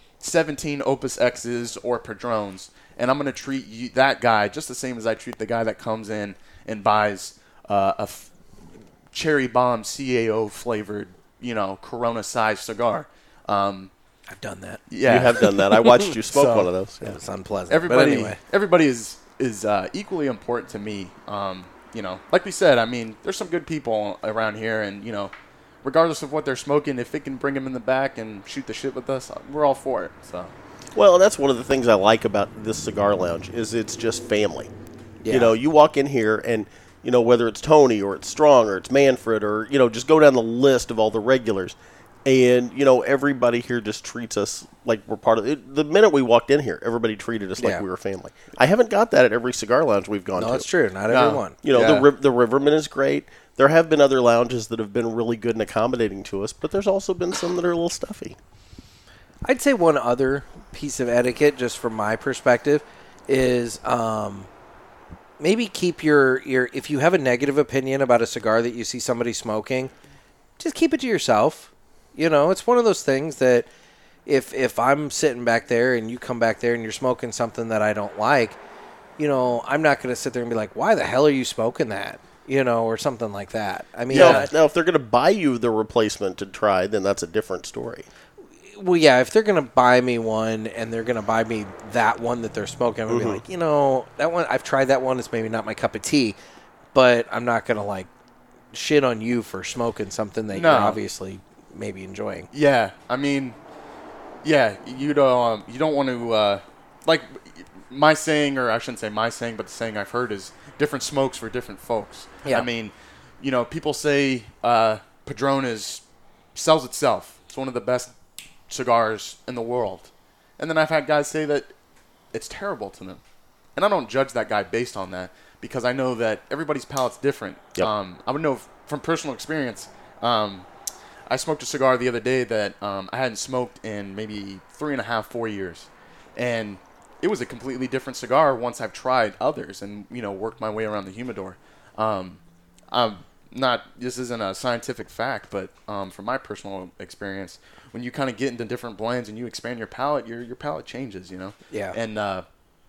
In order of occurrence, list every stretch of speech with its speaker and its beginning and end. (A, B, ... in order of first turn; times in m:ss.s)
0:00.2-0:08.3 A
0:09.1-0:13.9 A
0:14.3-0:14.8 B
0:14.9-0:15.5 A
0:15.0-0:17.2 C
0:15.4-0:16.1 B
0:16.3-0:16.7 A
0:17.0-0:18.4 B
0:17.7-0:25.3 A
0:25.8-0:30.5 A
0:31.0-0:34.7 C
0:35.2-0:35.6 B
0:35.3-0:50.7 C
0:50.4-0:51.6 B
0:51.1-0:52.1 A
0:51.6-0:58.4 C
0:59.4-1:04.5 B
1:05.4-1:09.9 B
1:10.6-1:13.7 B
1:14.3-1:18.6 B
1:19.2-1:24.5 B
1:24.1-1:24.5 A
1:24.1-1:28.1 C
1:28.7-1:36.4 B
1:33.1-1:33.4 C
1:36.9-1:38.1 B
1:38.7-1:42.5 B
1:40.5-1:41.0 A
1:42.5-1:43.6 A
1:44.4-1:56.0 A
1:56.6-1:58.1 A
1:58.7-2:01.7 A
2:02.3-2:03.2 A
2:03.8-2:10.7 A
2:11.3-2:22.4 A
2:22.9-2:32.4 A
2:31.7-2:32.0 B